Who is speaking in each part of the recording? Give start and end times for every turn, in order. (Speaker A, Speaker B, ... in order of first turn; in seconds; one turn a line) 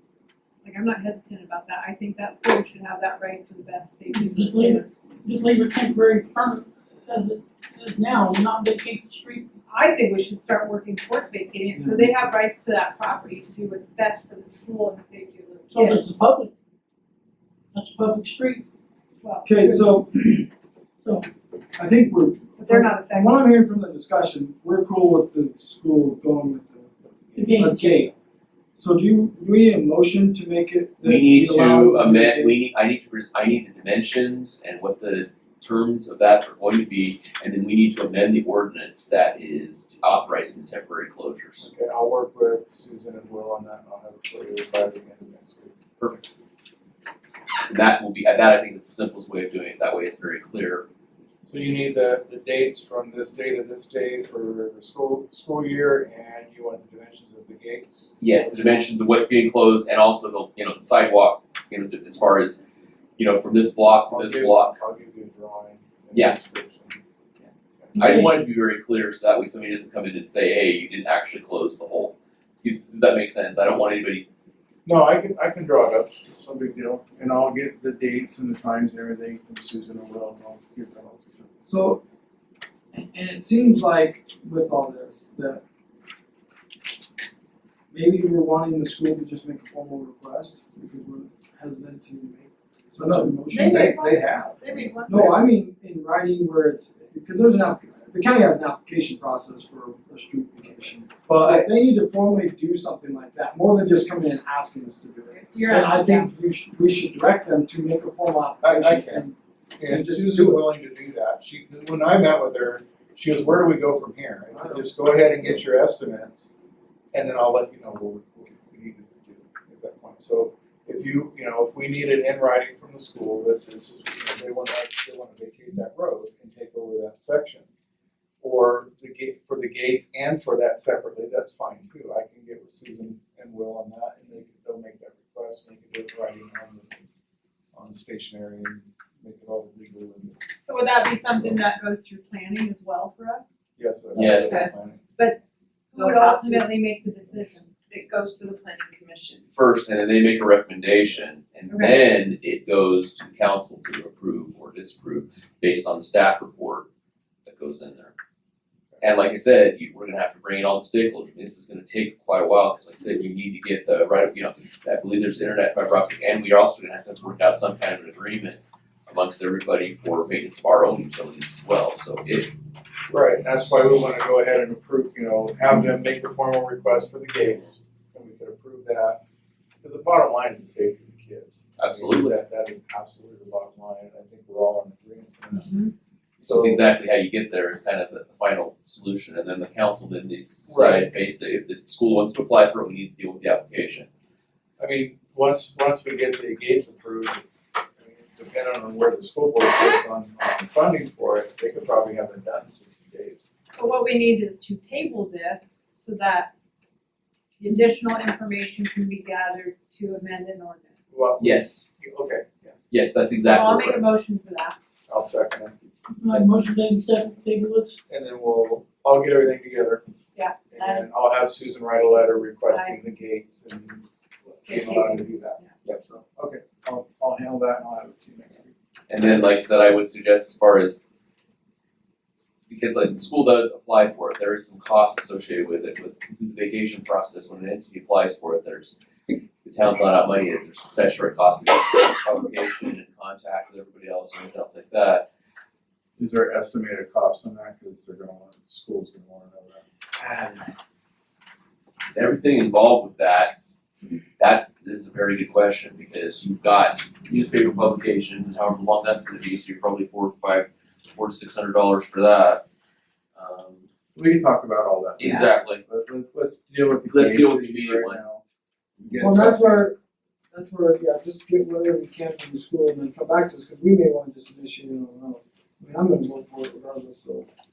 Speaker A: 0.6-4.9
Speaker B: 4.1-9.5
Speaker A: 9.7-16.0
Speaker C: 11.7-12.1
Speaker B: 15.7-16.5
Speaker B: 17.7-18.6
Speaker A: 19.2-20.0
Speaker C: 19.4-20.5
Speaker B: 21.0-21.3
Speaker C: 21.7-26.9
Speaker A: 22.6-23.4
Speaker B: 27.3-28.1
Speaker C: 27.5-28.1
Speaker C: 28.8-32.6
Speaker D: 31.0-41.7
Speaker E: 41.6-45.7
Speaker D: 46.0-46.3
Speaker D: 47.7-50.9
Speaker E: 51.4-58.9
Speaker D: 58.2-62.6
Speaker D: 63.2-64.8
Speaker E: 64.1-67.0
Speaker E: 67.8-68.0
Speaker B: 68.0-68.4
Speaker D: 68.0-74.2
Speaker E: 74.8-81.5
Speaker C: 81.7-82.0
Speaker C: 82.9-85.6
Speaker C: 87.9-94.0
Speaker E: 93.0-95.3
Speaker A: 93.5-95.4
Speaker C: 95.1-109.3
Speaker E: 101.2-101.7
Speaker A: 105.3-106.3
Speaker E: 108.6-109.3
Speaker E: 109.8-116.5
Speaker C: 109.9-110.6
Speaker C: 114.5-115.6
Speaker E: 117.1-127.6
Speaker E: 128.4-137.0
Speaker E: 137.7-140.4
Speaker A: 140.6-143.5
Speaker E: 143.8-145.0
Speaker D: 144.1-144.7
Speaker F: 144.4-144.8
Speaker A: 145.0-145.4
Speaker A: 145.9-147.7
Speaker F: 146.0-146.7
Speaker F: 147.9-149.4
Speaker D: 149.5-156.9
Speaker A: 151.7-152.0
Speaker D: 157.4-158.1
Speaker D: 159.0-172.5
Speaker E: 173.1-179.2
Speaker E: 179.8-185.8
Speaker D: 181.8-182.4
Speaker A: 185.5-185.9
Speaker E: 186.4-186.9
Speaker D: 186.4-194.1
Speaker E: 190.7-191.1
Speaker E: 194.8-197.4
Speaker E: 198.0-203.5
Speaker A: 203.7-206.5
Speaker A: 207.6-211.0
Speaker E: 211.1-212.8
Speaker D: 211.4-211.9
Speaker D: 212.9-214.0
Speaker A: 213.4-214.8
Speaker E: 215.1-215.8
Speaker B: 216.1-218.0
Speaker E: 218.1-220.1
Speaker A: 220.3-221.1
Speaker E: 220.7-225.6
Speaker A: 222.7-223.1
Speaker A: 224.7-225.7
Speaker D: 225.8-226.2
Speaker E: 226.3-228.7
Speaker D: 229.1-231.0
Speaker D: 232.7-238.9
Speaker D: 239.6-245.3
Speaker E: 246.2-249.8
Speaker D: 250.2-250.7
Speaker D: 252.1-253.5
Speaker D: 254.4-262.6
Speaker D: 263.4-263.8
Speaker E: 264.1-268.4
Speaker D: 265.2-265.8
Speaker D: 267.1-268.2
Speaker E: 269.0-269.9
Speaker C: 269.2-270.0
Speaker C: 270.5-277.5